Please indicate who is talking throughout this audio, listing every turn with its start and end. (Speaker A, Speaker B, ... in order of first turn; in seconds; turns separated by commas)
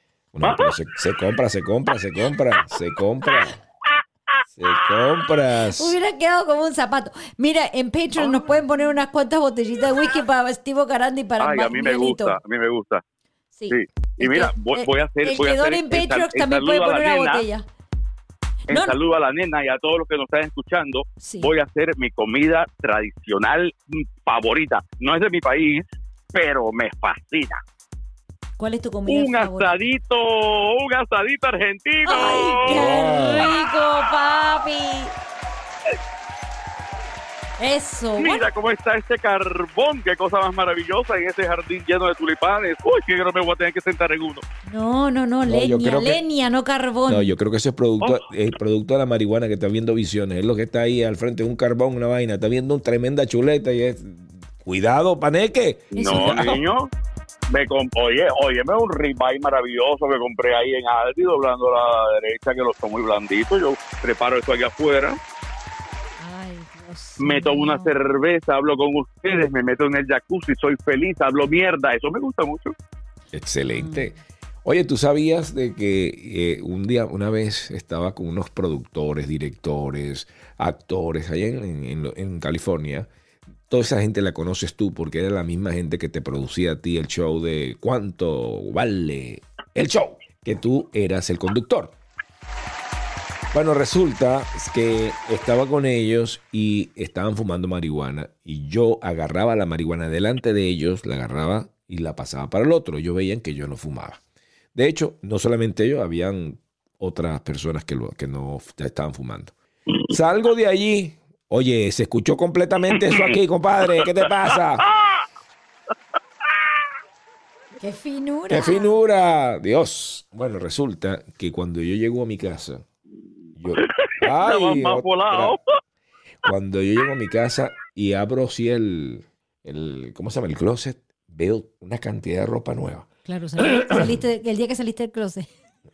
Speaker A: 0.3-3.6, Speaker B: 0.4-0.8, Speaker B: 4.3-5.0, Speaker A: 4.6-6.0, Speaker C: 5.8-12.4, Speaker B: 11.4-13.0, Speaker C: 13.6-17.7, Speaker B: 13.7-17.4, Speaker C: 18.7-19.0, Speaker B: 18.7-27.6, Speaker C: 21.2-21.5, Speaker C: 28.6-29.8, Speaker B: 29.1-33.6, Speaker C: 32.1-35.1, Speaker A: 32.6-33.5, Speaker C: 37.6-38.5, Speaker B: 38.2-44.4, Speaker C: 44.7-47.3, Speaker A: 45.5-46.2, Speaker A: 47.1-56.6, Speaker B: 48.0-48.3, Speaker B: 55.9-56.9, Speaker C: 56.0-56.5, Speaker B: 57.5-65.2, Speaker C: 66.2-67.9, Speaker B: 67.2-72.7, Speaker A: 73.3-83.1, Speaker C: 73.7-74.1, Speaker A: 83.7-91.9, Speaker A: 93.5-104.2, Speaker A: 104.8-109.5, Speaker A: 110.1-114.8, Speaker B: 112.9-113.3, Speaker B: 113.9-115.2, Speaker C: 117.8-118.9, Speaker A: 118.5-122.8, Speaker A: 123.6-125.6, Speaker B: 123.8-125.6, Speaker A: 126.4-133.1, Speaker C: 133.3-135.5, Speaker A: 133.8-134.2